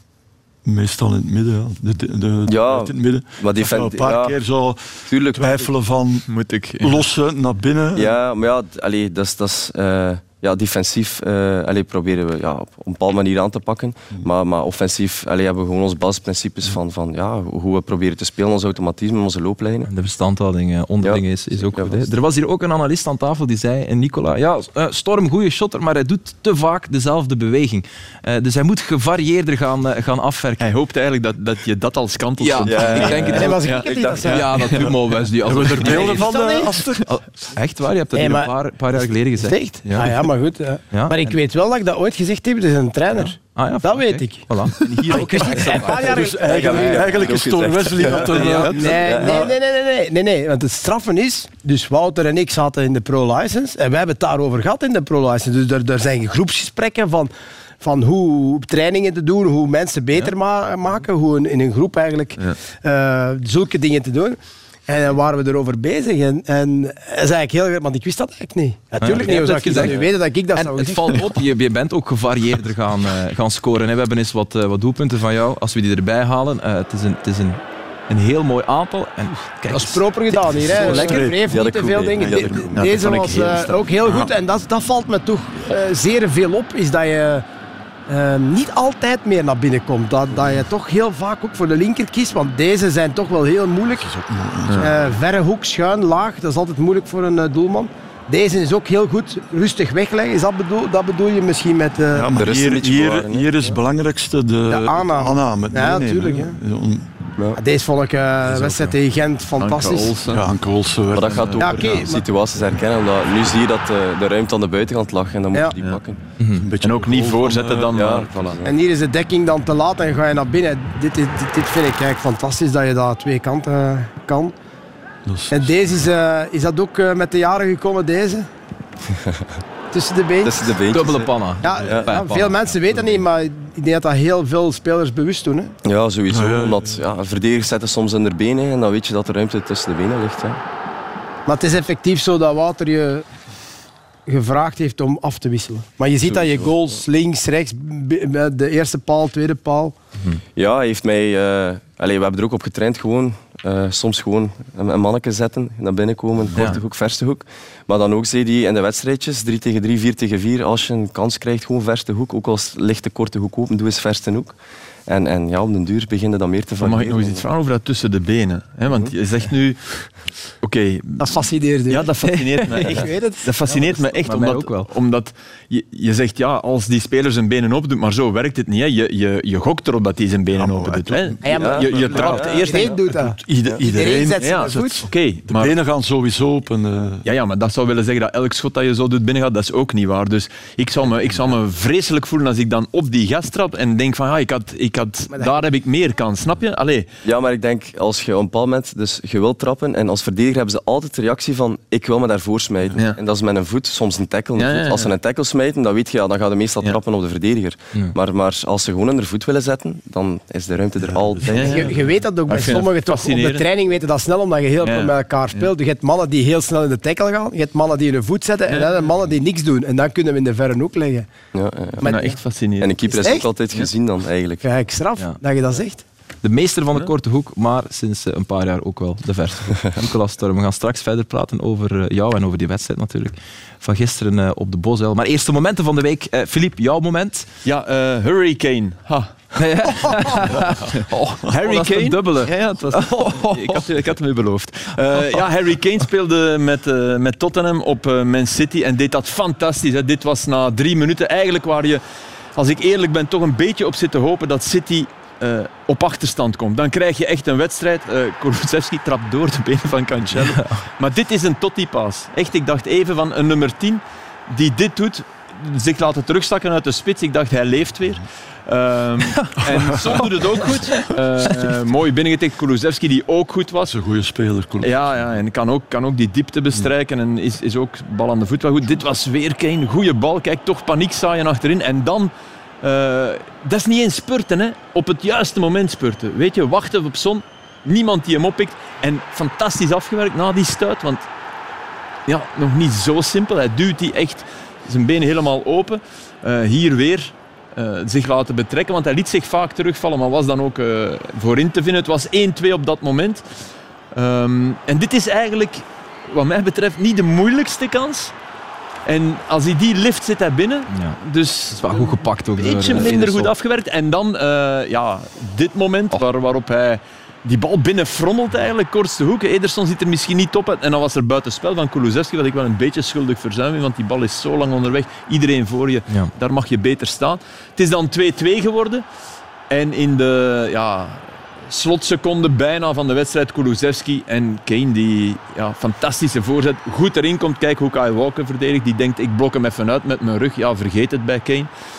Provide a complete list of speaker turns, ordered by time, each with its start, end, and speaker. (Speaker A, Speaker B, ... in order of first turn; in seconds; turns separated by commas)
Speaker A: 0.7-8.1, Speaker B: 2.5-4.4, Speaker B: 5.1-5.7, Speaker C: 6.3-7.0, Speaker B: 8.0-19.9, Speaker D: 19.9-30.6, Speaker B: 21.0-22.1, Speaker C: 30.6-35.0, Speaker D: 32.4-33.6, Speaker B: 32.7-34.3, Speaker E: 32.9-34.5, Speaker D: 34.3-36.3, Speaker A: 35.5-37.1, Speaker E: 36.1-36.7, Speaker D: 37.1-40.3, Speaker E: 38.1-47.1, Speaker D: 40.9-41.2, Speaker D: 43.1-46.2, Speaker B: 45.9-49.5, Speaker A: 46.0-49.5, Speaker E: 48.7-71.2, Speaker D: 69.0-70.0, Speaker D: 70.5-81.2, Speaker E: 79.7-87.5, Speaker A: 80.7-81.4, Speaker B: 80.8-82.7, Speaker A: 82.2-82.8, Speaker C: 82.8-83.8, Speaker E: 88.1-94.1, Speaker A: 94.0-95.2, Speaker E: 94.8-102.3, Speaker A: 102.1-107.1, Speaker B: 102.3-103.5, Speaker E: 104.7-106.6, Speaker E: 107.6-110.1, Speaker A: 108.5-109.0, Speaker C: 109.6-110.5, Speaker A: 110.3-112.1, Speaker B: 111.1-116.2, Speaker C: 111.3-111.5, Speaker E: 111.6-112.2, Speaker D: 116.4-116.7, Speaker A: 116.6-118.2, Speaker C: 116.8-118.6, Speaker B: 117.9-118.7, Speaker E: 118.6-124.5, Speaker A: 125.2-126.1, Speaker E: 125.5-128.5, Speaker E: 129.9-130.6, Speaker B: 130.4-132.1, Speaker D: 130.9-132.7, Speaker E: 131.6-135.7, Speaker B: 135.8-140.6, Speaker A: 136.3-137.1, Speaker E: 141.5-143.2, Speaker E: 144.3-149.9, Speaker B: 146.2-146.8, Speaker B: 150.6-167.4, Speaker A: 156.4-156.7, Speaker D: 156.6-156.8, Speaker C: 166.8-182.9, Speaker B: 168.9-169.1, Speaker E: 171.2-172.1, Speaker D: 172.3-173.2, Speaker E: 172.8-174.0, Speaker D: 174.2-174.9, Speaker A: 180.5-187.2, Speaker E: 181.4-181.8, Speaker B: 181.5-183.0, Speaker E: 182.4-185.0, Speaker C: 184.4-185.7, Speaker C: 187.2-197.1, Speaker B: 197.2-211.9, Speaker C: 204.6-205.1, Speaker A: 211.0-212.1, Speaker C: 211.5-211.9, Speaker E: 211.7-221.3, Speaker C: 212.5-213.7, Speaker C: 214.8-215.7, Speaker C: 218.7-218.9, Speaker B: 221.5-222.1, Speaker E: 222.0-222.4, Speaker C: 222.1-223.1, Speaker B: 222.8-224.7, Speaker E: 223.1-223.5, Speaker E: 224.6-226.0, Speaker D: 226.4-237.5, Speaker C: 237.7-239.4, Speaker D: 239.6-243.9, Speaker C: 240.9-252.0, Speaker C: 252.6-273.9, Speaker D: 260.4-260.8, Speaker D: 269.2-269.6, Speaker D: 270.8-271.0, Speaker A: 273.9-275.2, Speaker C: 274.8-282.3, Speaker C: 282.8-291.3, Speaker C: 292.3-303.5, Speaker C: 304.1-308.3, Speaker C: 309.1-329.1, Speaker D: 310.9-311.2, Speaker D: 311.7-313.5, Speaker C: 329.7-341.7